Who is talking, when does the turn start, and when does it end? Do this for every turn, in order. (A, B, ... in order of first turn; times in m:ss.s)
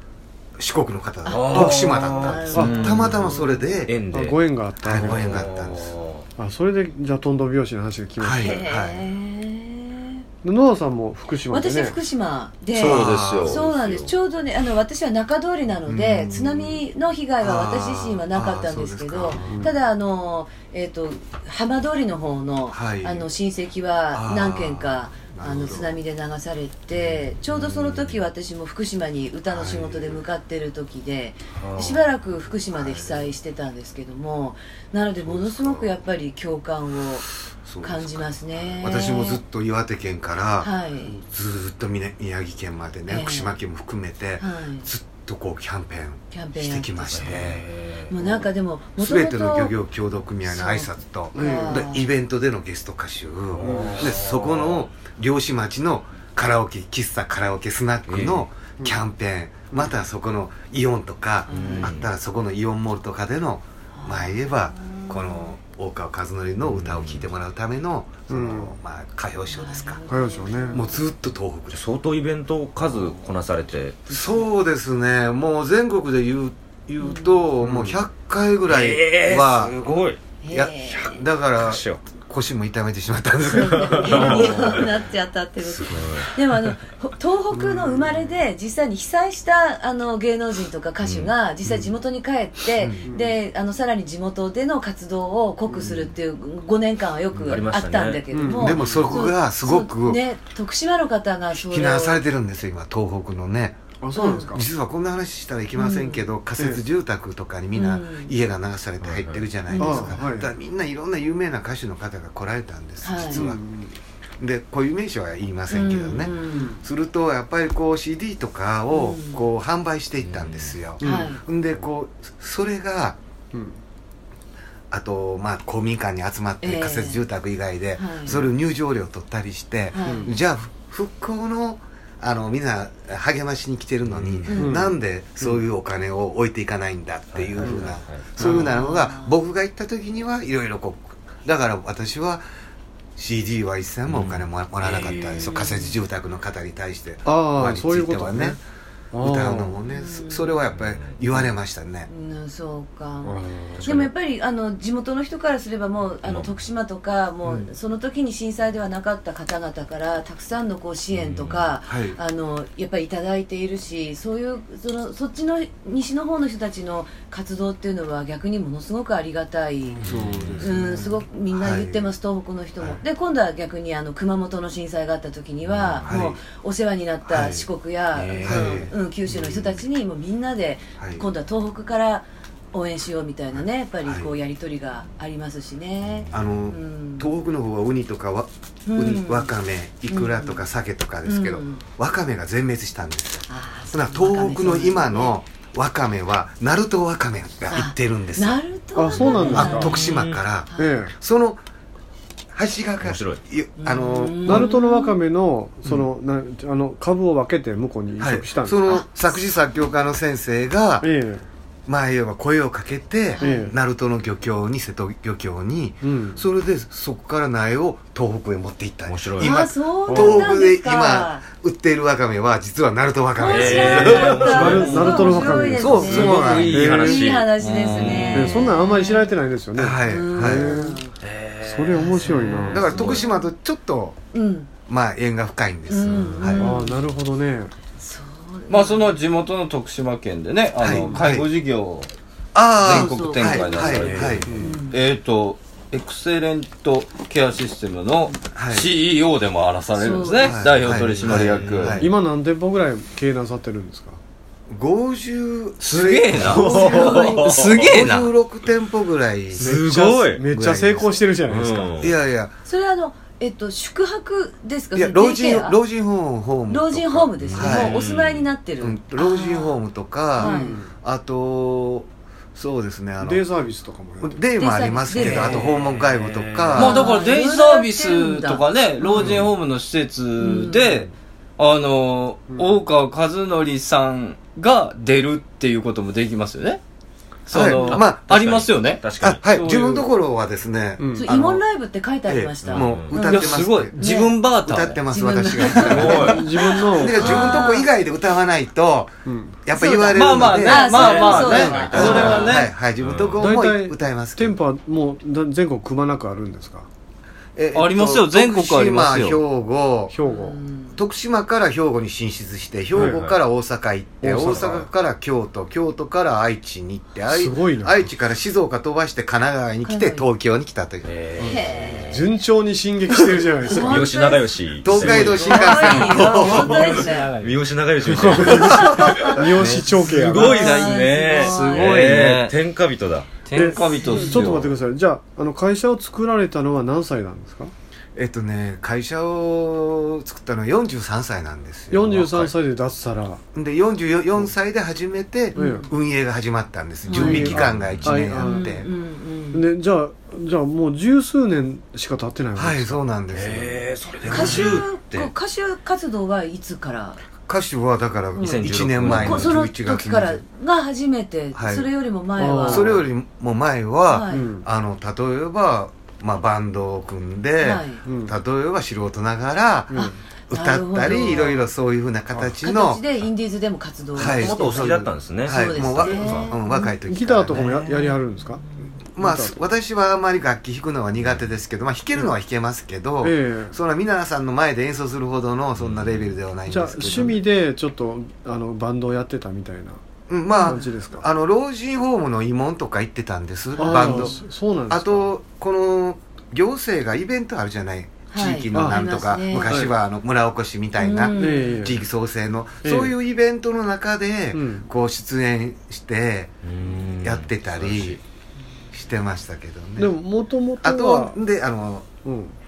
0:00.6-0:03.9 A
0:01.2-0:03.6 B
0:01.3-0:06.2 C
0:02.5-0:02.9 D
0:04.1-0:05.4 D
0:04.8-0:06.0 A
0:06.4-0:08.6 D
0:08.2-0:09.1 A
0:08.4-0:10.2 B
0:10.4-0:12.0 D
0:11.5-0:39.4 B
0:12.8-0:13.6 E
0:12.8-0:13.6 A
0:12.8-0:14.1 C
0:15.9-0:16.8 A
0:17.4-0:19.7 A
0:19.4-0:19.7 D
0:22.7-0:23.3 A
0:24.1-0:26.0 A
0:29.5-0:30.2 A
0:31.6-0:32.0 C
0:32.7-0:33.4 A
0:35.2-0:36.0 A
0:37.6-0:47.7 A
0:40.6-0:41.2 B
0:43.1-0:43.6 B
0:44.4-0:44.9 B
0:46.3-0:49.8 B
0:47.2-0:48.2 C
0:49.0-1:10.0 A
0:50.5-0:52.1 B
0:51.3-0:51.8 D
0:53.6-0:54.7 C
0:53.6-0:54.0 D
0:58.1-0:58.5 C
1:01.5-1:01.9 B
1:01.5-1:02.1 C
1:04.0-1:05.5 B
1:06.6-1:07.2 C
1:08.3-1:08.7 D
1:09.5-1:11.0 B
1:10.1-1:10.8 D
1:10.7-1:11.8 A
1:11.7-1:14.1 C
1:14.1-1:19.8 A
1:17.0-1:17.3 B
1:17.6-1:18.0 D
1:18.7-1:20.2 C
1:20.4-1:21.2 B
1:20.5-1:24.8 A
1:20.9-1:22.0 C
1:23.5-1:42.2 B
1:23.6-1:24.9 C
1:25.6-1:26.8 C
1:27.5-1:28.2 D
1:31.0-1:31.3 C
1:32.8-1:33.1 A
1:33.1-1:33.3 D
1:35.7-1:36.1 D
1:37.4-1:37.6 A
1:37.4-1:39.1 C
1:38.3-1:38.8 D
1:38.5-1:40.2 A
1:41.6-1:43.8 A
1:44.0-1:44.7 D
1:44.1-1:44.6 B
1:44.5-1:53.6 A
1:45.8-1:46.2 B
1:47.7-1:48.3 B
1:49.0-1:49.5 C
1:49.7-1:50.2 B
1:49.8-1:50.5 D
1:53.0-1:53.4 B
1:53.3-1:54.0 D
1:54.4-2:03.2 A
1:55.7-1:56.8 B
1:56.4-1:56.8 D
1:58.9-1:59.4 B
2:00.2-2:00.8 C
2:01.0-2:01.4 D
2:01.0-2:01.4 B
2:04.9-2:22.4 A
2:06.6-2:07.2 B
2:08.0-2:08.4 B
2:09.9-2:10.3 B
2:10.0-2:10.4 D
2:14.0-2:14.5 C
2:14.5-2:14.8 B
2:14.6-2:15.6 D
2:17.3-2:18.6 C
2:17.6-2:18.7 D
2:18.4-2:19.4 B
2:23.2-2:28.6 A
2:24.1-2:25.6 C
2:25.4-2:26.0 B
2:27.2-2:28.6 D
2:29.1-2:29.8 D
2:29.2-2:32.1 A
2:29.9-2:30.5 B
2:30.8-2:31.1 C
2:32.1-2:50.0 B
2:33.2-2:34.0 D
2:33.7-2:34.1 C
2:36.2-2:36.5 C
2:41.1-2:41.8 C
2:41.9-2:42.2 A
2:50.0-2:51.0 D
2:50.0-2:50.7 C
2:50.0-2:52.1 A
2:50.6-3:07.3 B
2:55.7-2:56.1 C
2:56.0-2:56.4 A
2:57.3-2:57.6 A
2:58.1-2:58.9 C
2:58.4-2:59.8 A
3:01.0-3:01.2 A
3:06.3-3:21.6 A
3:08.9-3:09.5 B
3:10.1-3:10.6 B
3:11.2-3:11.8 B
3:13.5-3:15.4 B
3:17.7-3:20.0 B
3:19.0-3:20.0 D
3:19.5-3:20.4 C
3:20.7-3:21.0 B
3:20.8-3:21.1 D
3:22.5-3:24.7 A
3:23.0-3:23.4 C
3:23.8-3:25.2 B
3:24.4-3:28.8 D
3:28.2-3:31.1 A
3:31.0-3:31.4 D
3:31.9-3:44.8 A
3:33.3-3:33.7 B
3:33.4-3:33.8 D
3:36.0-3:36.4 D
3:39.1-3:39.5 C
3:39.4-3:41.4 B
3:40.1-3:40.5 D
3:43.4-3:49.3 B
3:43.4-3:48.5 C
3:44.2-3:47.4 D
3:45.8-3:46.9 A
3:47.6-3:48.5 E
3:48.3-3:51.0 D
3:49.8-3:50.8 A
3:50.0-3:51.1 B
3:51.2-3:53.2 C
3:51.6-3:52.9 D
3:51.9-3:53.5 B
3:52.7-3:54.2 A
3:54.3-3:54.7 B
3:54.9-3:56.7 A
3:55.9-3:57.0 B
3:56.6-3:57.7 D
3:58.0-3:59.2 B
3:58.7-4:02.1 E
4:00.8-4:01.5 A
4:02.5-4:04.5 A
4:02.8-4:12.0 E
4:02.8-4:04.0 B
4:03.9-4:04.5 C
4:04.4-4:04.8 D
4:04.6-4:05.0 B
4:08.5-4:08.9 A
4:10.0-4:10.6 B
4:10.4-4:12.1 A
4:12.0-4:14.2 D
4:14.7-4:19.8 A
4:15.8-4:18.3 E
4:16.4-4:17.7 C
4:16.7-4:17.4 B
4:19.6-4:20.4 C
4:19.6-4:21.9 D
4:20.5-4:21.2 A
4:21.5-4:22.1 C
4:22.0-4:22.6 A
4:22.7-4:25.8 B
4:24.9-4:28.0 A
4:26.7-4:29.8 B
4:27.4-4:28.5 C
4:28.8-4:33.4 A
4:30.4-4:30.8 B
4:30.4-4:30.9 D
4:33.2-4:34.4 D
4:34.2-4:37.1 A
4:34.6-4:35.7 B
4:35.2-4:36.9 C
4:35.3-4:35.6 E
4:36.8-4:39.4 B
4:36.8-4:46.8 E
4:40.4-4:41.0 B
4:42.5-4:42.8 D
4:47.5-4:50.0 E
4:47.5-4:48.4 A
4:47.9-4:49.6 C
4:49.2-4:51.6 A
4:51.0-4:51.3 D
4:51.2-4:54.4 B
4:52.3-4:54.0 A
4:52.6-4:53.2 C
4:53.2-4:55.0 E
4:54.6-5:04.6 A
4:55.1-4:57.9 B
4:55.9-4:56.4 C
4:56.1-4:57.4 D
4:59.3-4:59.6 D
4:59.8-5:02.6 B
5:00.1-5:02.7 E
5:00.9-5:03.5 C
5:01.6-5:02.3 D
5:03.4-5:06.9 D
5:07.6-5:10.2 A
5:07.7-5:09.4 E
5:10.1-5:10.6 D
5:10.2-5:11.0 B
5:11.0-5:21.1 A
5:13.0-5:13.2 D
5:13.0-5:13.3 C
5:14.2-5:14.9 D
5:17.3-5:18.0 D
5:19.8-5:20.3 B
5:21.0-5:22.3 C
5:21.4-5:22.1 B
5:22.1-5:24.1 D
5:23.7-5:27.3 B
5:23.7-5:33.4 C
5:24.8-5:27.0 A
5:26.2-5:27.6 E
5:28.0-5:30.8 D
5:28.6-5:32.1 B
5:30.4-5:32.6 E
5:33.4-5:34.7 E
5:33.5-5:37.7 D
5:34.2-5:34.6 C
5:38.2-5:42.5 A
5:41.9-5:43.4 D
5:43.5-5:48.9 A
5:45.6-5:45.9 D
5:45.6-5:45.9 B
5:47.1-5:47.6 B
5:47.1-5:48.6 D
5:47.4-5:48.2 C
5:48.4-5:49.7 B
5:49.5-5:53.0 D
5:52.6-5:54.8 A
5:53.3-5:55.3 C
5:54.3-5:57.2 B
5:57.5-6:00.4 A
5:58.4-5:58.7 D
5:58.4-5:59.6 C
5:59.0-6:02.9 B
6:01.6-6:01.9 A
6:02.4-6:03.0 D
6:02.6-6:10.0 A
6:04.1-6:04.5 B
6:04.3-6:04.7 D
6:07.6-6:08.0 B
6:08.0-6:08.4 D
6:09.9-6:10.2 D
6:09.9-6:11.6 B
6:10.5-6:13.0 A
6:12.6-6:15.0 B
6:14.2-6:17.7 A
6:14.2-6:16.5 C
6:15.5-6:16.9 B
6:16.7-6:18.6 D
6:17.6-6:19.0 B
6:19.2-6:27.4 A
6:19.2-6:19.6 D
6:23.2-6:23.8 D
6:25.8-6:26.3 C
6:26.7-6:30.0 D
6:30.3-6:34.4 A
6:30.5-6:30.8 B
6:30.6-6:31.3 D
6:33.7-6:34.4 B
6:33.8-6:35.3 D
6:34.9-6:48.2 A
6:38.3-6:39.9 B
6:38.7-6:39.0 D
6:39.7-6:39.9 D
6:41.0-6:41.9 B
6:41.3-6:42.0 D
6:42.8-6:43.1 D
6:44.5-6:44.9 D
6:46.6-6:48.2 C
6:48.9-6:50.2 A
6:50.0-6:51.4 D
6:50.8-6:52.1 A
6:52.2-6:52.6 D